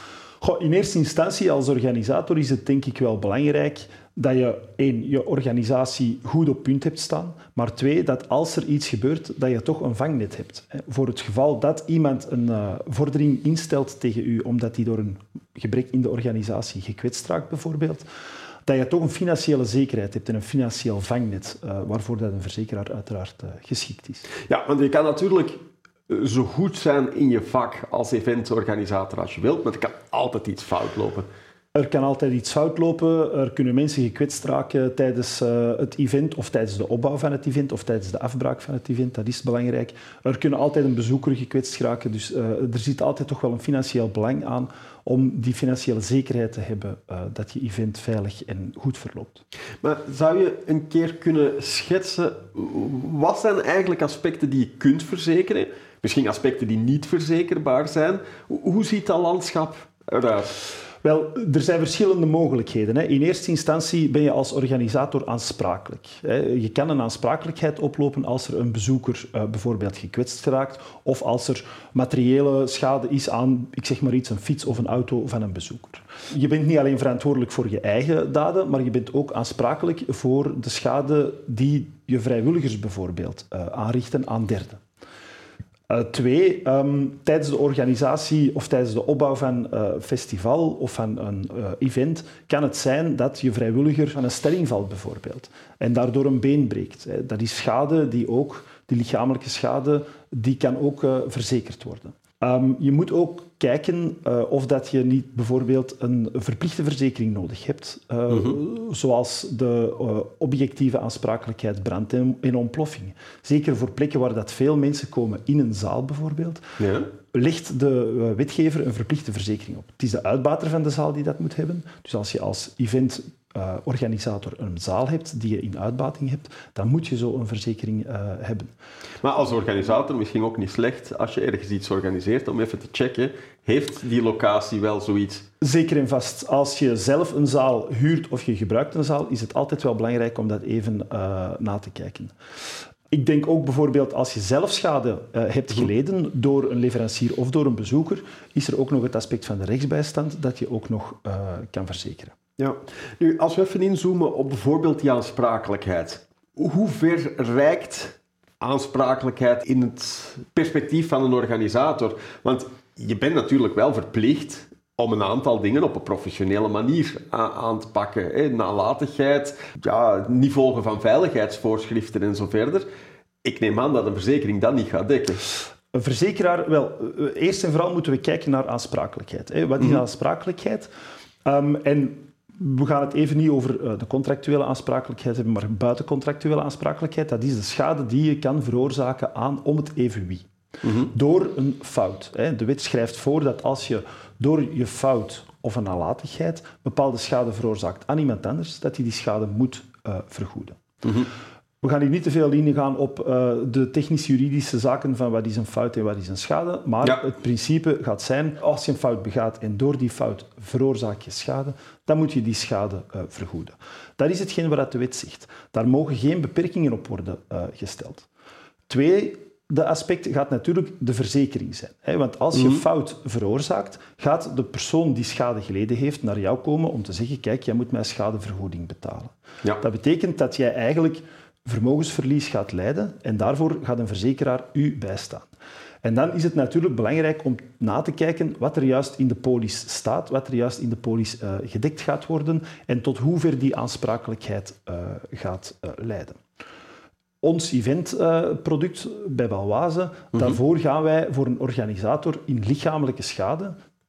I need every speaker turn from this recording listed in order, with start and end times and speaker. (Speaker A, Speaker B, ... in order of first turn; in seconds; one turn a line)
Speaker A: 0.4-18.0
Speaker A: 18.6-24.2
Speaker B: 24.5-25.5
Speaker B: 26.1-31.3
Speaker A: 31.7-49.4
Speaker B: 49.8-60.5
Speaker A: 61.0-84.8
Speaker A: 85.9-116.6
Speaker B: 108.3-108.5
Speaker B: 116.8-117.1
Speaker A: 117.3-128.7
Speaker B: 129.2-135.4
Speaker A: 135.6-142.3
Speaker A: 143.1-152.3
Speaker B: 152.6-172.8
Speaker B: 173.4-175.4
Speaker A: 175.9-180.9
Speaker A: 181.4-200.8
Speaker B: 190.8-191.1
Speaker B: 201.0-201.3
Speaker A: 201.8-218.3
Speaker A: 218.9-235.5
Speaker B: 222.5-222.8
Speaker A: 236.0-246.4
Speaker A: 247.4-253.7